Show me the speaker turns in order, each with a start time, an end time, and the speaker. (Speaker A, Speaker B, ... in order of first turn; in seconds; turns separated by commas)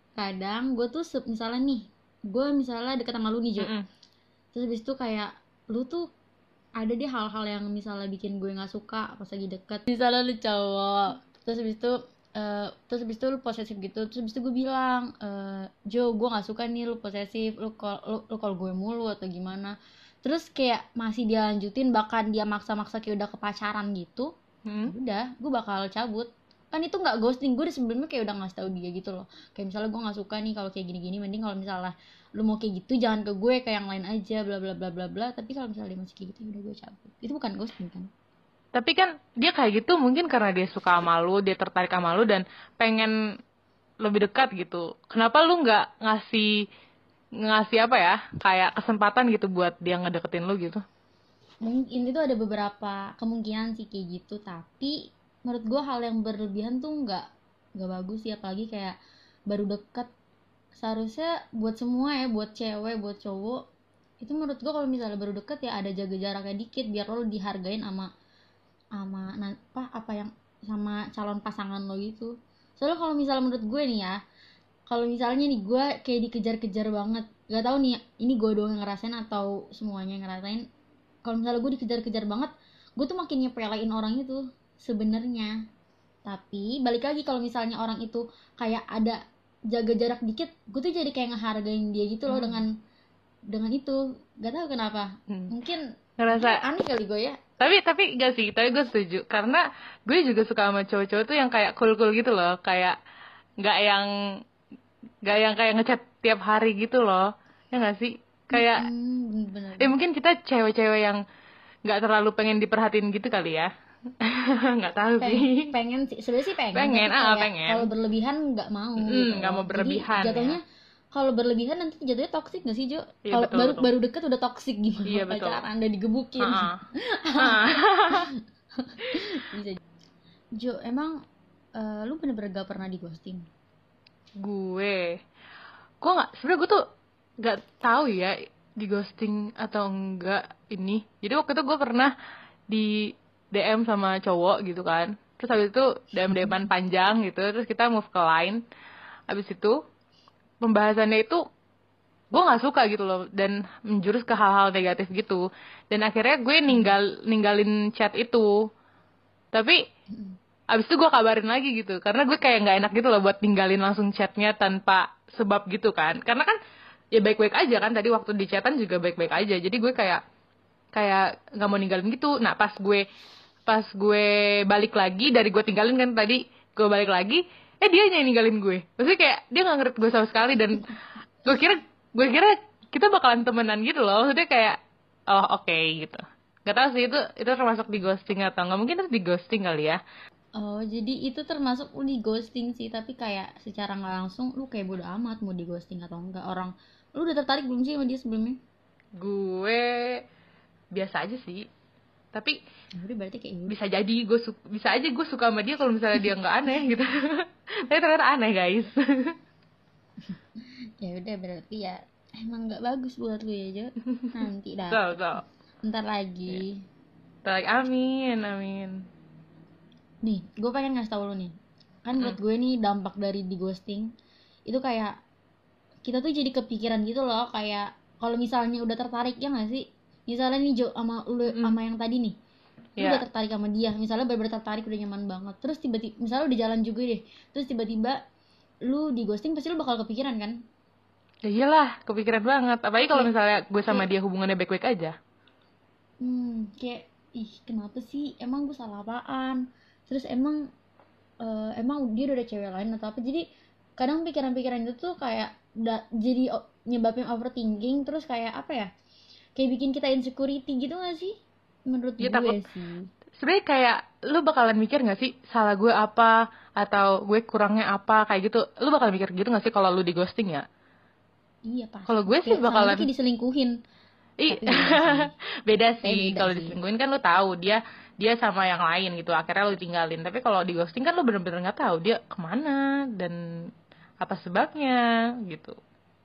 Speaker A: 0.1-3.7, Speaker B: 3.6-3.9, Speaker A: 4.5-6.1, Speaker A: 6.8-24.3, Speaker B: 24.6-24.9, Speaker A: 24.9-38.1, Speaker B: 38.7-43.1, Speaker B: 44.0-46.6, Speaker B: 47.4-50.8, Speaker A: 51.6-57.2, Speaker A: 57.8-59.0, Speaker A: 59.5-60.1, Speaker A: 60.8-63.6, Speaker A: 64.2-68.1, Speaker A: 69.0-74.1, Speaker A: 74.9-80.6, Speaker A: 81.2-85.5, Speaker A: 86.2-92.7, Speaker B: 92.3-92.6, Speaker A: 93.5-97.3, Speaker B: 96.2-96.6, Speaker B: 97.6-103.0, Speaker B: 103.6-104.1, Speaker B: 105.2-108.9, Speaker A: 108.5-109.9, Speaker B: 109.8-111.2, Speaker B: 111.9-115.7, Speaker A: 115.2-120.6, Speaker B: 116.7-117.9, Speaker B: 119.0-120.6, Speaker A: 121.1-129.8, Speaker B: 123.2-123.9, Speaker B: 125.1-125.6, Speaker B: 126.4-126.8, Speaker B: 127.4-128.3, Speaker A: 130.6-131.1, Speaker A: 131.8-133.5, Speaker B: 134.4-135.2, Speaker B: 136.0-136.8, Speaker B: 137.4-142.1, Speaker B: 142.7-148.6, Speaker B: 149.3-149.8, Speaker B: 150.6-151.4, Speaker B: 152.3-158.5, Speaker A: 156.7-156.9, Speaker B: 159.5-159.8, Speaker A: 160.1-160.4, Speaker B: 160.7-166.6, Speaker B: 167.2-170.2, Speaker B: 170.9-173.0, Speaker B: 173.7-180.9, Speaker B: 181.4-184.8, Speaker B: 185.3-190.0, Speaker A: 190.6-198.6, Speaker B: 199.2-200.2, Speaker B: 200.9-201.7, Speaker A: 203.0-203.8, Speaker B: 203.7-209.3, Speaker A: 211.0-216.8, Speaker B: 214.9-215.4, Speaker B: 217.4-219.0, Speaker A: 220.2-221.5, Speaker A: 222.0-224.1, Speaker A: 224.7-225.1, Speaker A: 226.0-232.3, Speaker B: 233.0-233.2, Speaker A: 233.0-238.2, Speaker A: 238.9-240.6, Speaker B: 241.4-245.1, Speaker A: 246.2-250.6, Speaker A: 251.4-253.4, Speaker A: 254.0-258.9, Speaker A: 259.6-261.3, Speaker A: 261.9-263.1, Speaker B: 262.2-262.6, Speaker B: 263.4-270.6, Speaker A: 271.7-273.7, Speaker B: 272.1-273.1, Speaker B: 274.4-283.4, Speaker A: 274.5-275.3, Speaker A: 276.0-276.8, Speaker B: 284.2-285.7